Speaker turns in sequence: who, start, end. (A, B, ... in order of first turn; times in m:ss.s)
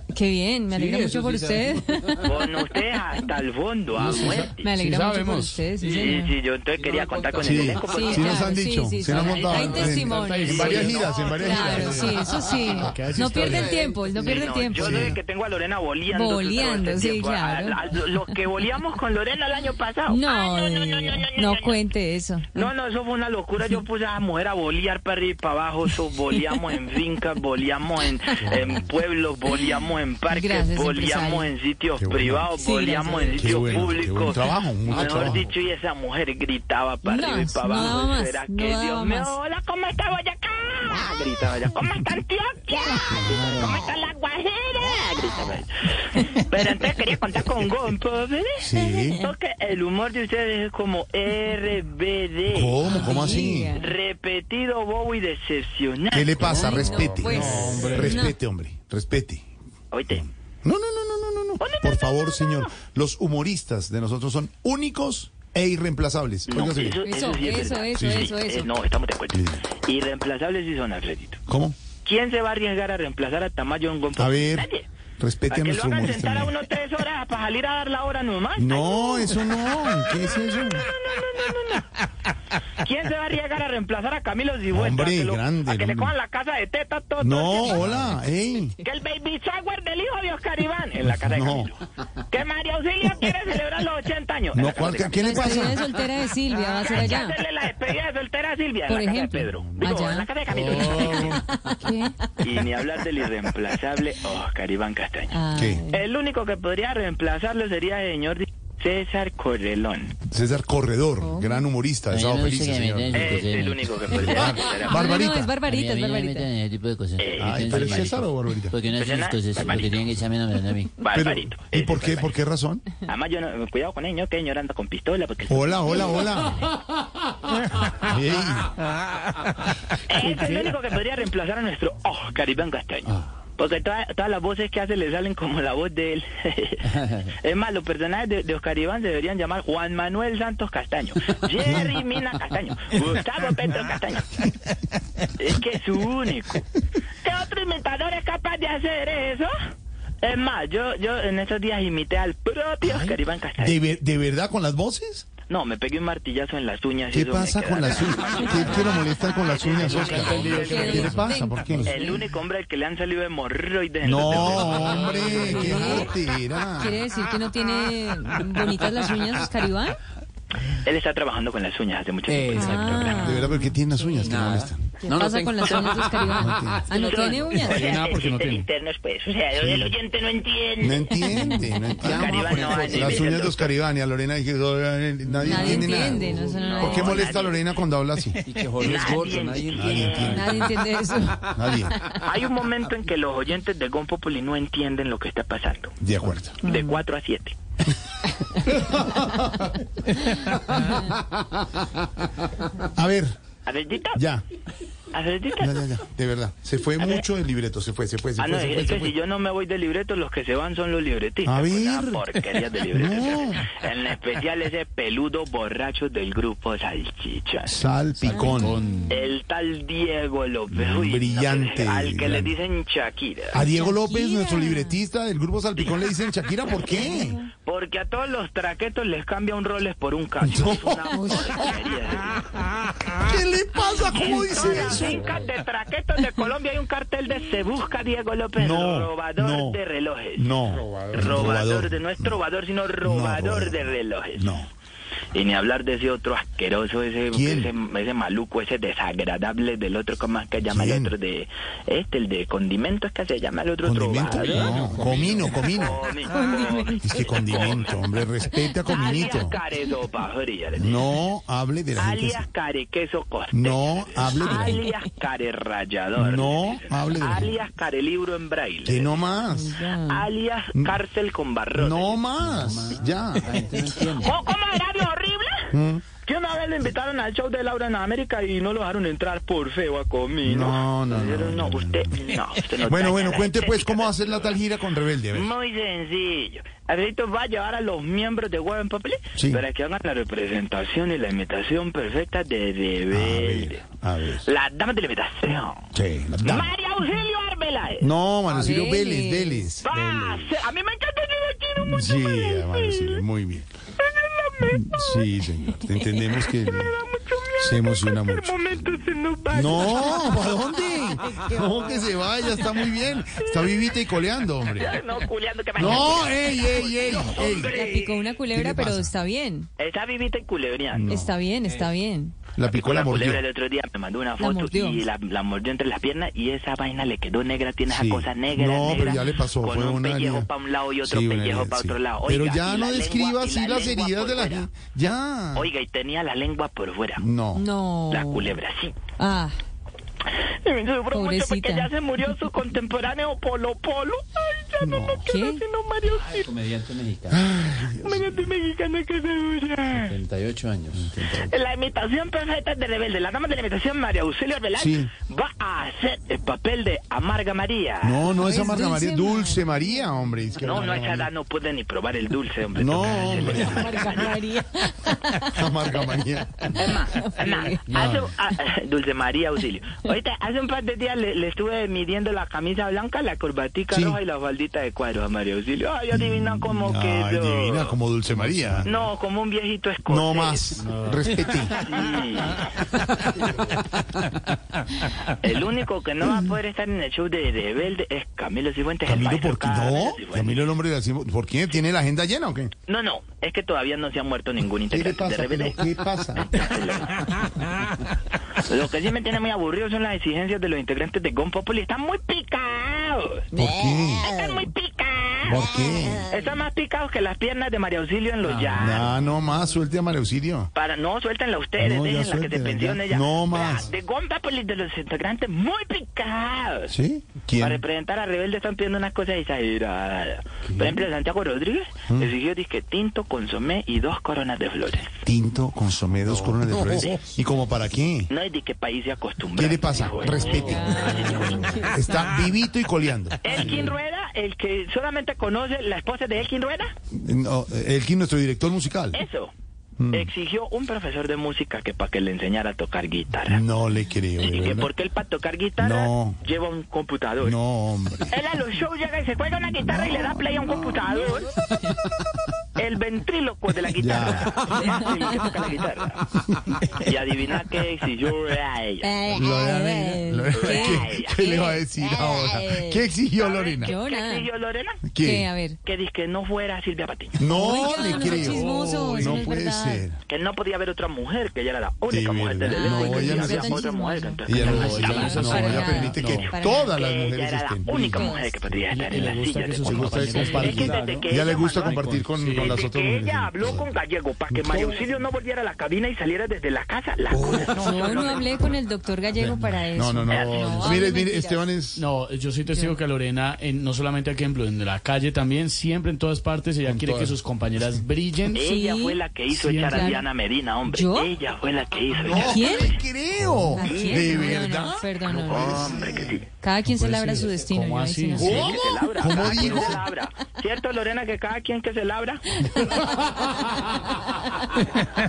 0:00.1-0:02.4 A
0:00.7-0:01.8 B
0:02.2-0:04.7 C
0:04.0-0:04.5 D
0:04.0-0:05.6 E
0:04.6-0:06.3 A
0:05.8-0:06.1 B
0:05.8-0:08.5 C
0:06.8-0:08.0 B
0:07.4-0:13.0 D
0:07.8-0:15.1 A
0:09.0-0:13.8 E
0:10.4-0:11.4 C
0:13.4-0:14.4 B
0:14.2-0:21.8 C
0:14.8-0:15.1 D
0:16.1-0:17.8 A
0:20.1-0:22.7 A
0:22.5-0:56.9 C
0:30.3-0:31.5 A
0:32.0-0:32.5 D
0:32.5-0:33.8 A
0:33.4-0:35.5 D
0:37.0-0:39.3 A
0:43.1-0:43.6 D
0:48.6-0:49.2 D
0:52.5-0:53.7 D
0:52.8-0:53.9 A
0:56.1-0:59.4 D
0:56.7-0:58.4 A
0:57.4-0:58.2 E
0:59.9-1:00.2 C
1:00.1-1:07.0 D
1:01.6-1:02.7 C
1:06.5-1:11.4 C
1:07.0-1:08.8 A
1:07.9-1:08.3 D
1:09.3-1:09.6 D
1:11.5-1:11.8 D
1:12.0-1:14.9 C
1:14.2-1:16.5 D
1:15.5-1:21.9 C
1:18.6-1:20.8 D
1:22.8-1:27.9 C
1:24.7-1:26.1 D
1:27.2-1:28.7 D
1:28.8-1:35.6 C
1:31.1-1:31.7 D
1:34.5-1:35.8 D
1:35.2-1:37.4 A
1:36.7-1:41.4 C
1:38.9-1:42.7 A
1:40.5-1:41.4 E
1:42.4-1:45.4 C
1:45.3-1:46.0 A
1:45.5-1:45.8 D
1:45.9-1:50.2 C
1:50.2-1:53.5 D
1:51.2-1:51.7 A
1:52.1-1:54.4 B
1:53.1-1:55.2 C
1:54.0-1:55.6 D
1:54.5-1:56.5 A
1:55.7-2:00.9 B
1:57.2-1:58.0 C
1:57.4-1:58.7 D
1:58.9-2:00.1 C
2:01.0-2:02.3 C
2:01.1-2:02.8 D
2:03.0-2:06.3 C
2:05.5-2:06.7 D
2:07.9-2:08.7 D
2:09.9-2:24.4 C
2:25.4-2:26.6 C
2:27.2-2:29.5 C
2:30.2-2:33.8 C
2:32.8-2:35.2 D
2:35.5-2:41.1 C
2:37.1-2:41.9 D
2:39.7-2:41.4 E
2:40.6-2:42.2 A
2:41.8-2:45.9 C
2:44.0-2:47.0 D
2:44.3-2:45.7 E
2:44.8-2:46.0 B
2:45.3-2:46.2 A
2:46.7-2:50.0 A
2:50.7-2:53.4 C
2:52.3-2:53.5 B
2:52.5-2:54.4 A
2:53.1-2:54.8 D
2:54.2-2:56.7 B
2:55.0-2:57.9 A
2:56.3-2:56.8 D
2:56.9-3:01.4 C
2:57.6-2:58.6 E
2:59.6-2:59.9 D
3:00.8-3:08.4 D
3:01.2-3:03.2 A
3:02.0-3:03.7 C
3:05.4-3:07.3 A
3:05.4-3:06.3 B
3:06.4-3:07.6 C
3:08.4-3:10.8 B
3:08.7-3:10.4 C
3:09.7-3:10.8 D
3:10.2-3:12.2 A
3:11.5-3:11.9 D
3:12.2-3:15.9 C
3:16.0-3:16.6 D
3:16.6-3:17.6 C
3:16.6-3:17.0 A
3:19.2-3:19.5 A
3:20.3-3:21.1 A
3:22.8-3:23.3 D
3:23.6-3:24.2 C
3:24.1-3:24.4 D
3:25.1-3:25.8 C
3:25.6-3:29.2 D
3:28.4-3:37.8 C
3:31.4-3:32.2 D
3:32.8-3:33.7 D
3:37.6-3:38.8 D
3:38.2-3:39.2 A
3:38.4-3:39.1 E
3:39.1-3:43.6 C
3:40.7-3:42.5 D
3:43.5-3:47.4 D
3:43.7-3:45.0 A
3:46.9-3:52.6 C
3:46.9-3:47.4 A
3:50.4-3:51.7 D
3:53.2-3:55.3 D
3:54.1-4:00.5 C
3:54.6-3:54.9 A
3:58.6-3:59.8 D
4:00.4-4:02.4 D
4:01.1-4:04.5 C
4:03.0-4:04.7 D
4:05.3-4:18.0 C
4:07.3-4:07.7 D
4:10.6-4:11.1 D
4:13.8-4:16.0 D
4:14.5-4:15.7 B
4:16.3-4:17.7 A
4:17.0-4:19.6 D
4:18.6-4:19.3 A
4:18.8-4:21.1 C
4:20.7-4:22.4 D
4:22.0-4:29.2 C
4:23.5-4:24.8 D
4:24.4-4:25.0 A
4:26.2-4:27.5 D
4:28.8-4:29.8 D
4:29.5-4:30.3 A
4:30.0-4:32.2 C
4:31.7-4:33.6 D
4:32.4-4:34.4 B
4:34.1-4:44.6 C
4:35.7-4:36.0 D
4:40.4-4:42.2 D
4:42.8-4:45.5 D
4:45.3-4:53.8 C
4:49.3-4:49.6 D
4:53.1-4:54.4 D
4:54.4-4:55.8 C
4:55.9-4:56.7 D
4:56.4-4:58.1 C
4:58.0-5:00.5 D
4:58.5-4:59.8 A
4:59.8-5:03.2 C
5:01.8-5:03.6 D
5:04.0-5:05.2 C
5:04.6-5:06.9 D
5:05.8-5:06.3 A
5:06.4-5:10.4 C
5:07.6-5:08.6 D
5:09.5-5:15.0 D
5:10.2-5:11.6 A
5:13.4-5:13.9 C
5:14.7-5:18.3 C
5:15.8-5:17.8 D
5:17.5-5:19.7 A
5:18.5-5:19.1 D
5:19.8-5:21.1 C
5:20.9-5:21.3 D
5:21.1-5:22.4 A
5:22.6-5:23.4 D
5:22.7-5:34.7 C
5:24.4-5:25.0 A
5:27.9-5:30.5 D
5:31.0-5:35.7 D
5:35.5-5:37.2 C
5:37.2-5:37.6 D
5:37.5-5:38.6 A
5:38.1-5:39.0 C
5:39.2-5:39.5 A
5:40.5-5:46.5 C
5:41.1-5:41.9 A
5:44.8-5:45.2 D
5:45.2-5:45.6 A
5:46.3-5:47.4 B
5:47.3-5:48.5 D
5:47.9-5:50.2 C
5:49.9-5:51.5 B
5:51.2-5:58.2 C
5:54.8-5:55.1 D
5:58.0-6:01.3 D
5:58.3-5:59.8 A
6:00.6-6:04.4 C
6:02.7-6:04.3 D
6:03.2-6:08.0 A
6:05.5-6:06.7 D
6:06.7-6:18.0 C
6:13.9-6:14.2 D
6:16.1-6:18.9 D
6:18.3-6:18.9 E
6:18.8-6:20.8 C
6:20.1-6:21.7 D
6:20.8-6:21.4 E
6:21.7-6:22.7 C
6:25.3-6:30.6 C
6:29.0-6:32.7 D
6:32.9-6:35.8 C
6:34.9-6:36.6 D
6:36.4-6:37.2 C
6:38.6-6:43.5 C
6:43.5-6:44.3 D
6:44.1-6:45.7 C
6:45.4-6:46.3 D
6:46.2-6:49.1 C
6:48.4-6:48.8 B
6:48.7-6:50.7 D
6:50.7-6:56.9 C
6:51.8-6:53.9 D
6:56.9-6:57.8 D
6:57.6-7:05.1 C
7:05.2-7:08.3 D
7:06.8-7:07.2 C
7:08.3-7:10.6 C
7:09.5-7:13.8 D
7:10.3-7:11.7 E
7:10.4-7:12.2 A
7:13.4-7:16.9 C
7:17.1-7:19.2 D
7:19.1-7:19.5 C
7:20.0-7:20.3 D
7:20.1-7:23.6 C
7:23.5-7:24.9 D
7:24.4-7:27.6 C
7:25.8-7:26.4 D
7:27.4-7:28.3 D
7:28.3-7:31.5 C
7:29.8-7:31.0 D
7:31.0-7:31.8 A
7:32.8-7:36.3 C
7:34.0-7:34.7 D
7:34.7-7:35.3 A
7:36.9-7:39.1 C
7:39.0-7:43.0 A
7:39.3-7:44.0 D
7:40.5-7:41.6 C
7:43.4-7:45.0 C
7:43.7-7:44.5 A
7:45.0-7:45.5 D
7:45.2-7:45.8 A
7:45.8-7:47.4 C
7:47.4-7:50.2 D
7:47.5-7:50.1 A
7:48.3-7:49.4 E
7:50.2-7:55.5 C
7:52.1-7:53.9 D
7:52.7-7:56.9 A
7:54.4-7:58.3 D
7:54.5-7:56.5 E
7:56.9-8:02.0 C
7:57.8-7:58.5 A
7:58.9-8:01.2 E
7:59.8-8:04.0 D
8:00.8-8:01.2 B
8:01.8-8:02.8 E
8:02.5-8:08.4 C
8:04.5-8:05.0 D
8:07.3-8:08.4 D
8:07.7-8:11.7 A
8:09.3-8:12.0 D
8:10.3-8:11.0 C
8:12.0-8:18.6 E
8:16.8-8:17.4 D
8:18.5-8:23.0 C
8:18.6-8:19.2 A
8:19.5-8:20.1 E
8:19.9-8:20.3 A
8:20.9-8:21.3 A
8:22.2-8:26.4 D
8:22.3-8:23.0 A
8:23.7-8:26.0 A
8:23.9-8:24.5 C
8:25.3-8:26.5 C
8:26.5-8:28.7 A
8:26.8-8:29.9 E
8:28.4-8:30.0 D
8:28.4-8:32.5 C
8:32.6-8:33.4 A
8:34.2-8:34.8 A